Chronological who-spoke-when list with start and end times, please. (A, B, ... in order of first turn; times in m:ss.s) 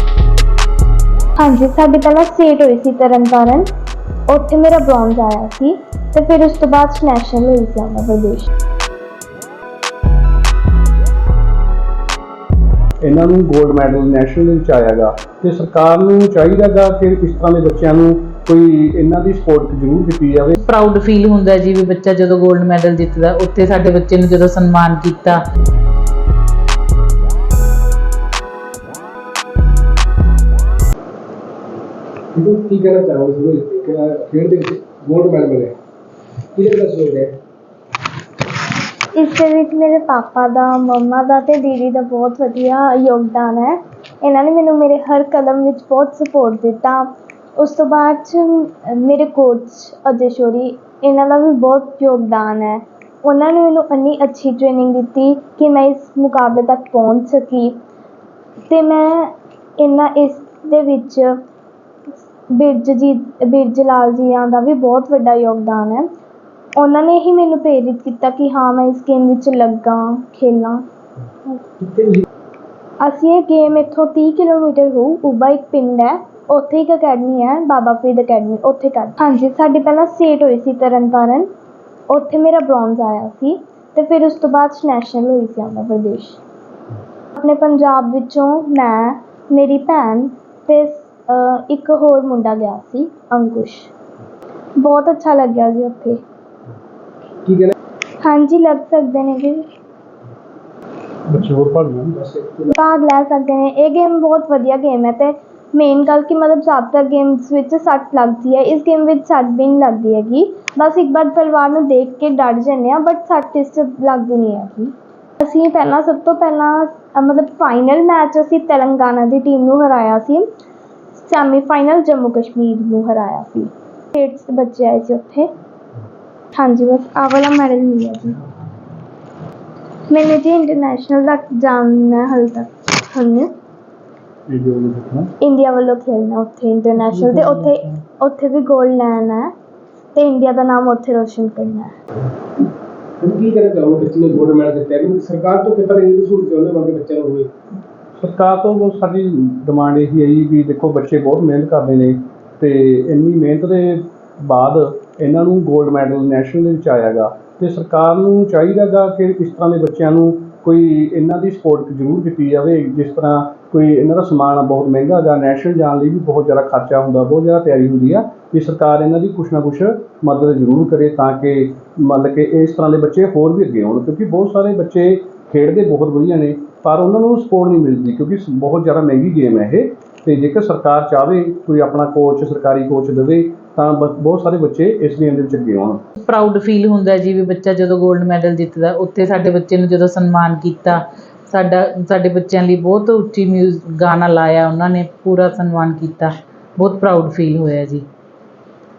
0:01.4-0:03.7 A
0:04.3-0:08.5 A
0:13.0-0:20.6 B
0:20.6-0:25.4 C
0:32.3-0:35.7 D
0:36.6-0:37.3 D
0:39.1-0:57.8 A
0:58.7-1:01.4 A
1:02.5-1:06.1 A
1:06.8-1:10.8 A
1:11.8-1:12.2 D
1:13.0-1:21.5 A
1:22.1-1:26.4 A
1:27.4-1:33.9 A
1:34.8-1:36.2 A
1:37.4-1:37.7 D
1:38.2-1:39.6 A
1:41.3-1:42.2 B
1:42.2-1:42.7 D
1:42.7-2:00.5 A
2:01.1-2:05.5 A
2:06.5-2:08.4 A
2:10.1-2:13.5 A
2:14.5-2:15.3 B
2:15.4-2:19.5 A
2:20.1-2:21.9 A
2:23.2-2:27.5 D
2:28.2-3:06.0 B
3:06.2-3:18.0 C